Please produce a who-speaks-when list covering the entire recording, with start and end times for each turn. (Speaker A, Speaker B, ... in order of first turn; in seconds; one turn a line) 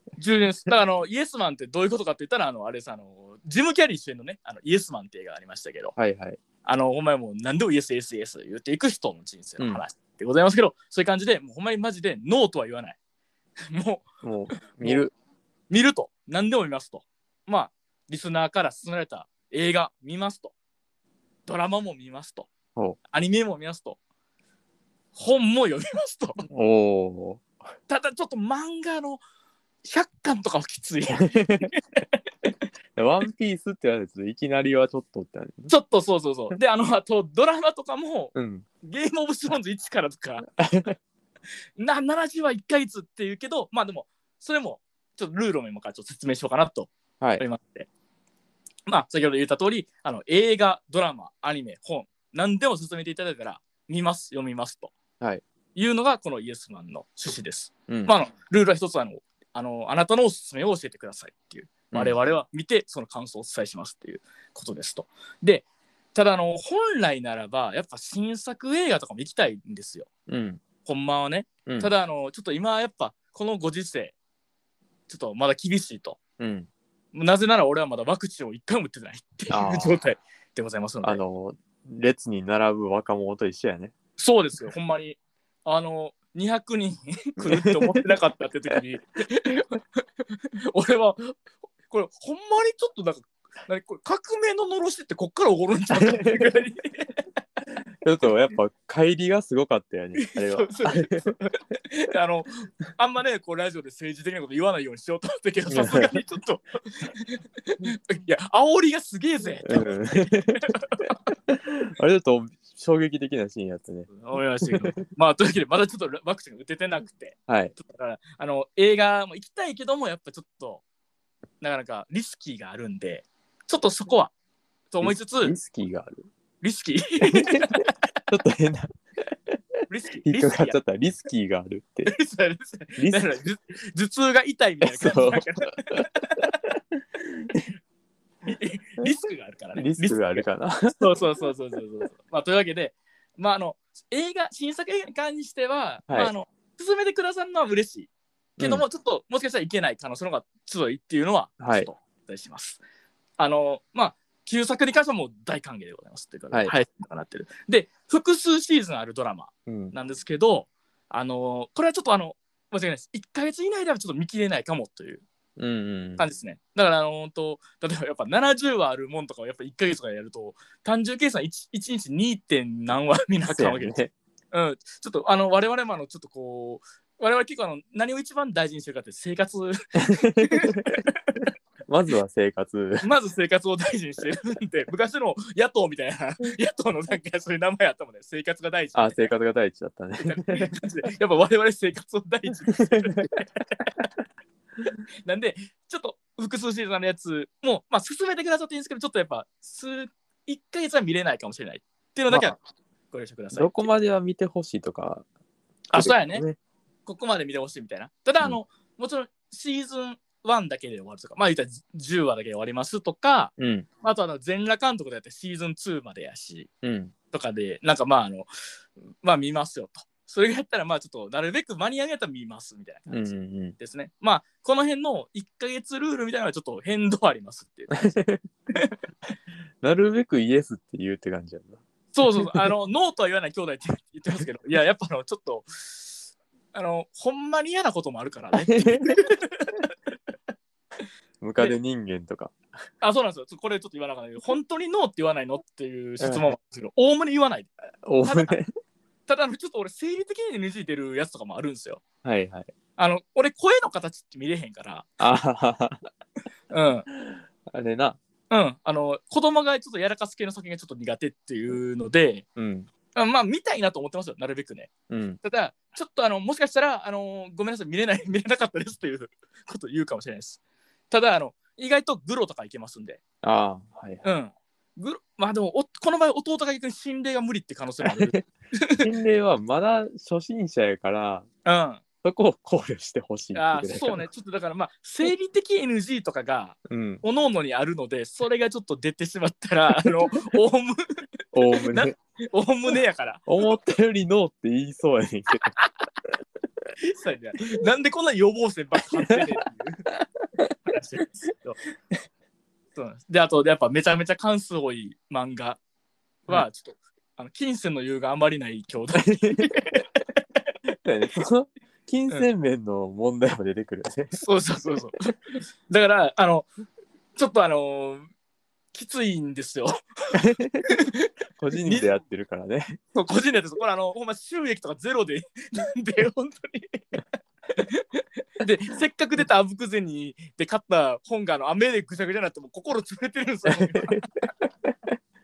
Speaker A: 0.2-5.9
Speaker B: 6.0-6.4
Speaker A: 6.6-13.0
Speaker A: 13.7-14.1
Speaker B: 14.2-15.1
Speaker A: 14.7-15.1
Speaker A: 15.7-20.5
Speaker A: 21.4-22.5
Speaker A: 23.1-24.0
Speaker A: 25.1-26.4
Speaker B: 26.5-27.4
Speaker A: 27.9-29.2
Speaker A: 29.8-32.0
Speaker B: 31.2-31.7
Speaker B: 33.0-35.7
Speaker A: 35.7-40.5
Speaker B: 38.3-38.6
Speaker B: 40.6-41.0
Speaker A: 41.8-47.9
Speaker A: 48.9-54.9
Speaker A: 55.7-70.1
Speaker B: 57.9-58.1
Speaker B: 70.3-70.6
Speaker A: 70.8-74.1
Speaker B: 71.7-71.9
Speaker A: 75.1-76.2
Speaker B: 76.4-76.7
Speaker A: 77.1-81.2
Speaker B: 79.5-80.0
Speaker B: 81.0-83.9
Speaker A: 84.2-90.0
Speaker B: 87.4-88.0
Speaker A: 90.7-91.3
Speaker A: 91.9-97.1
Speaker B: 96.0-96.5
Speaker B: 98.0-101.3
Speaker A: 100.2-111.2
Speaker B: 105.7-106.1
Speaker B: 109.6-110.7
Speaker B: 111.5-115.0
Speaker A: 114.1-120.8
Speaker B: 117.5-117.7
Speaker A: 121.6-124.3
Speaker A: 124.9-125.5
Speaker B: 125.0-126.3
Speaker A: 126.6-127.9
Speaker B: 127.3-127.6
Speaker B: 128.3-128.9
Speaker A: 129.9-130.8
Speaker B: 130.2-132.1
Speaker A: 132.1-136.5
Speaker B: 133.0-133.3
Speaker B: 134.8-136.0
Speaker B: 137.2-137.6
Speaker A: 138.4-152.8
Speaker B: 139.8-140.9
Speaker B: 148.6-148.8
Speaker B: 151.6-151.9
Speaker A: 153.4-165.2
Speaker B: 159.7-159.9
Speaker B: 165.6-166.2
Speaker A: 166.2-174.0
Speaker B: 173.5-174.1
Speaker A: 174.5-181.4
Speaker B: 180.0-180.9
Speaker B: 181.9-183.1
Speaker A: 183.0-189.3
Speaker B: 188.9-190.7
Speaker A: 190.2-193.6
Speaker B: 192.9-193.3
Speaker A: 195.2-202.6
Speaker B: 202.3-202.5
Speaker A: 203.1-203.9
Speaker B: 203.5-205.2
Speaker A: 205.9-206.4
Speaker B: 205.9-206.6
Speaker A: 207.1-216.7
Speaker B: 213.6-213.9
Speaker B: 216.8-217.1
Speaker A: 217.3-218.5
Speaker A: 219.2-228.2
Speaker B: 223.1-223.8
Speaker B: 228.0-228.4
Speaker B: 229.8-231.8
Speaker A: 232.1-239.9
Speaker B: 232.4-232.7
Speaker B: 238.7-239.2
Speaker B: 241.4-242.6
Speaker A: 243.0-247.7
Speaker B: 246.2-246.4
Speaker B: 248.0-248.7
Speaker A: 248.2-248.6
Speaker A: 249.3-252.0
Speaker B: 252.2-252.7
Speaker A: 253.0-255.1
Speaker B: 255.2-256.0
Speaker A: 256.7-257.1
Speaker B: 257.1-258.2
Speaker A: 258.5-262.4
Speaker B: 262.6-262.9
Speaker A: 263.1-264.9
Speaker B: 265.1-265.4
Speaker A: 265.4-273.2
Speaker B: 273.4-274.2
Speaker A: 274.2-279.1
Speaker B: 278.1-278.4
Speaker B: 279.0-281.4
Speaker A: 281.6-282.0
Speaker B: 282.2-284.2
Speaker A: 283.5-293.4
Speaker B: 286.9-287.2
Speaker B: 291.5-292.1
Speaker B: 293.5-295.7
Speaker A: 297.0-300.1
Speaker A: 300.9-301.8
Speaker A: 302.9-305.8
Speaker A: 306.4-310.1
Speaker B: 309.2-309.7
Speaker B: 310.9-314.4
Speaker A: 314.3-316.7
Speaker A: 317.4-318.3
Speaker A: 318.9-321.3
Speaker B: 320.3-320.9
Speaker B: 321.6-323.0
Speaker A: 321.8-322.1
Speaker A: 323.1-327.0
Speaker A: 327.7-334.5